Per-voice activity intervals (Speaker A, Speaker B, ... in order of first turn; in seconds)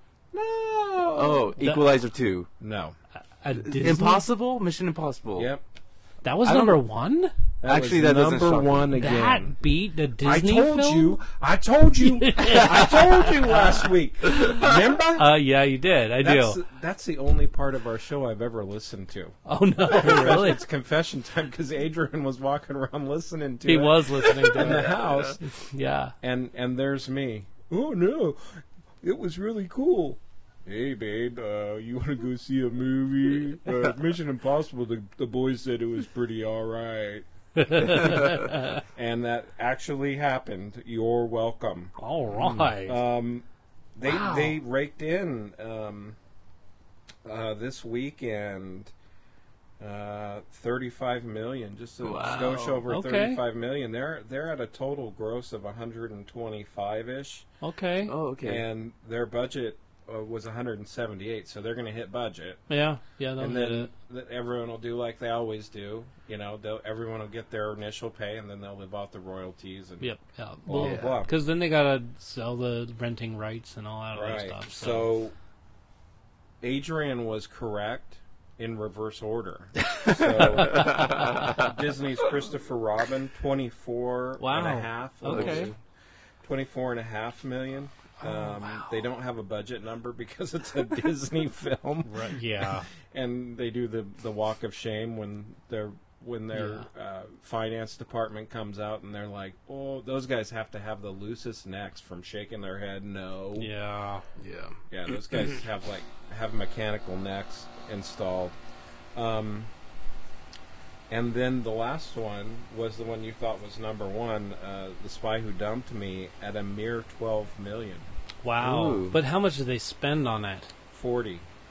Speaker A: 0.3-1.6, 2.6-3.0, 5.3-5.6, 6.5-6.7, 7.6-9.6, 10.2-15.3, 16.2-25.4, 26.2-38.2, 38.8-41.9, 42.8-46.2, 47.2-48.9, 49.8-57.5, 58.4-62.7, 63.4-70.1, 70.6-71.3, 74.1-75.3, 76.6-85.7, 86.4-103.7, 104.9-108.5, 109.1-109.7, 111.1-118.1, 120.9-121.5
Speaker B: 1.1-2.5, 3.6-5.5, 7.7-8.9, 24.5-25.4, 38.1-38.4, 42.4-42.7, 52.0-52.8, 58.0-58.6, 70.8-71.2, 79.9-81.7, 85.2-85.7, 104.4-104.8, 118.6-119.2
Speaker C: 3.4-4.2, 6.2-7.3, 9.0-11.2, 12.0-16.6, 19.5-20.6, 23.6-26.1, 37.6-38.8, 42.0-43.0, 44.0-44.5, 52.9-53.4, 57.6-58.1, 62.7-63.9, 70.0-75.1, 84.4-85.7, 88.2-89.0, 92.0-92.9, 96.5-96.9, 103.5-104.2, 118.4-120.7